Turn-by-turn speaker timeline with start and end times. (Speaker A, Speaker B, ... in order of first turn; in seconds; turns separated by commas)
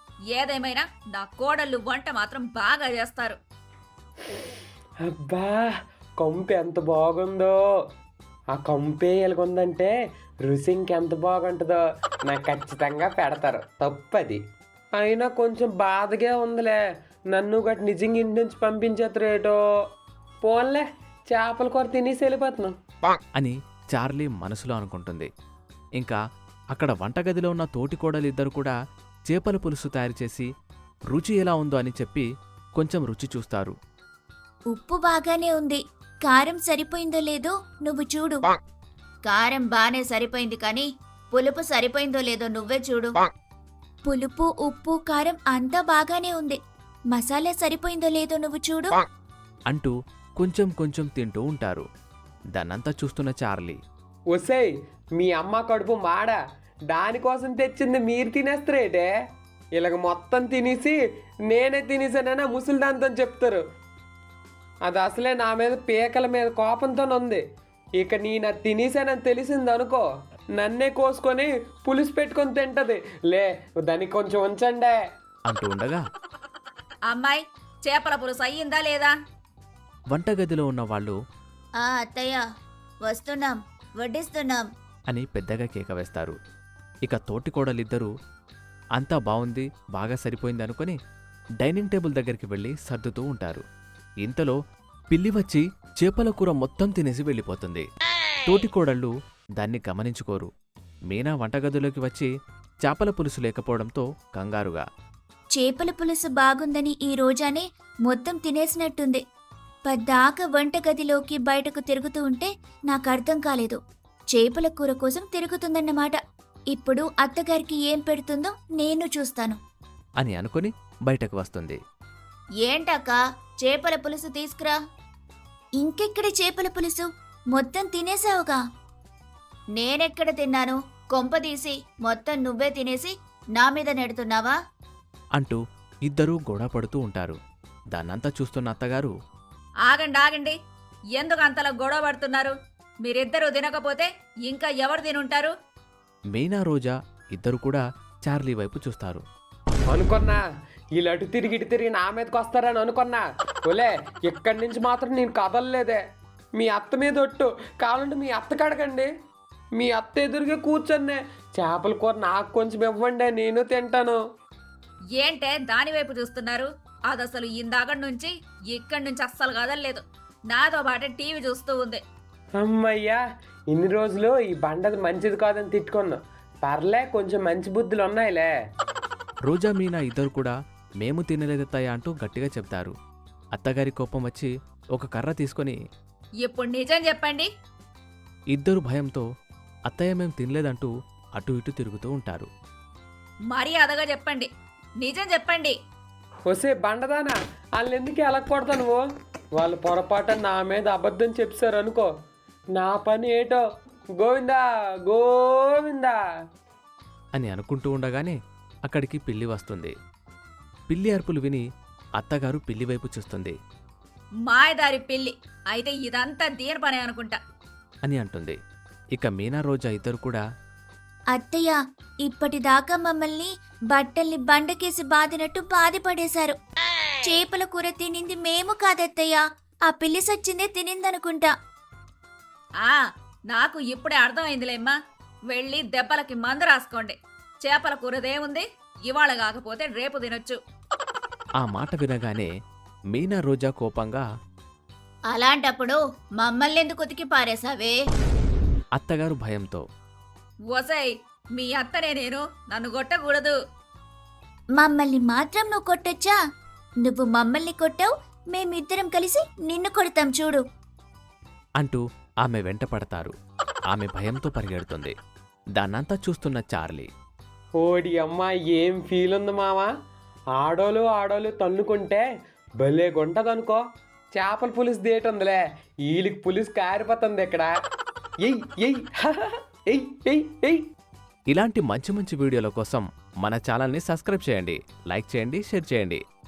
Speaker A: 0.4-3.4, Speaker B: 5.0-7.6, Speaker B: 8.5-9.9, Speaker B: 10.4-14.4, Speaker B: 15.0-19.6, Speaker B: 20.4-22.8, Speaker C: 23.4-25.3, Speaker C: 26.7-28.7, Speaker C: 29.3-30.5, Speaker C: 31.1-33.8, Speaker D: 34.7-38.4, Speaker D: 39.2-43.1, Speaker D: 44.0-46.6, Speaker D: 47.1-48.9, Speaker C: 49.7-51.9, Speaker C: 52.5-53.8, Speaker B: 54.3-56.4, Speaker B: 56.9-59.1, Speaker B: 59.8-63.6, Speaker B: 64.8-67.4, Speaker B: 68.0-75.0, Speaker C: 75.5-76.0, Speaker A: 77.9-79.1, Speaker C: 80.1-81.2, Speaker D: 81.8-82.4, Speaker D: 83.0-84.7, Speaker C: 85.1-86.4, Speaker C: 87.0-88.1, Speaker C: 89.0-91.0, Speaker C: 91.6-93.6, Speaker C: 94.2-94.6, Speaker C: 95.1-97.9, Speaker C: 98.5-100.5, Speaker C: 101.1-102.3, Speaker C: 102.8-104.8, Speaker D: 105.5-109.2, Speaker D: 109.9-113.8, Speaker D: 114.3-116.2, Speaker D: 116.7-119.6, Speaker C: 120.2-121.8, Speaker D: 122.6-124.8, Speaker D: 125.8-128.6, Speaker D: 129.8-134.6, Speaker C: 135.4-137.4, Speaker C: 137.9-139.1, Speaker A: 139.9-140.5, Speaker A: 141.2-142.5, Speaker A: 143.1-145.5, Speaker C: 146.3-149.2, Speaker B: 149.9-150.4, Speaker B: 150.9-156.0, Speaker B: 156.6-159.1, Speaker B: 159.7-164.2, Speaker A: 165.2-172.0, Speaker B: 172.6-178.5, Speaker C: 179.4-182.9, Speaker C: 183.5-185.8, Speaker A: 186.5-187.5, Speaker C: 188.5-189.2, Speaker C: 189.9-192.5, Speaker A: 193.5-194.5, Speaker A: 195.0-195.7, Speaker B: 196.5-199.0, Speaker B: 199.6-202.1, Speaker B: 202.7-203.6, Speaker B: 204.2-206.2, Speaker C: 207.3-209.9, Speaker C: 210.9-211.6, Speaker C: 212.2-213.6, Speaker A: 214.5-217.4, Speaker C: 218.0-218.6, Speaker C: 219.1-220.4, Speaker D: 221.3-226.6, Speaker D: 227.2-231.5, Speaker A: 233.5-234.9, Speaker A: 235.5-240.6, Speaker C: 241.6-242.5, Speaker C: 243.1-244.2, Speaker D: 245.3-248.0, Speaker C: 248.9-249.9, Speaker A: 250.7-253.5, Speaker D: 254.8-256.4, Speaker D: 257.0-260.6, Speaker C: 261.8-263.3, Speaker C: 263.9-265.1, Speaker C: 265.7-267.1, Speaker B: 267.8-269.9, Speaker B: 270.5-272.2, Speaker B: 272.8-273.8, Speaker B: 274.3-277.7, Speaker B: 278.4-280.8, Speaker C: 281.5-286.2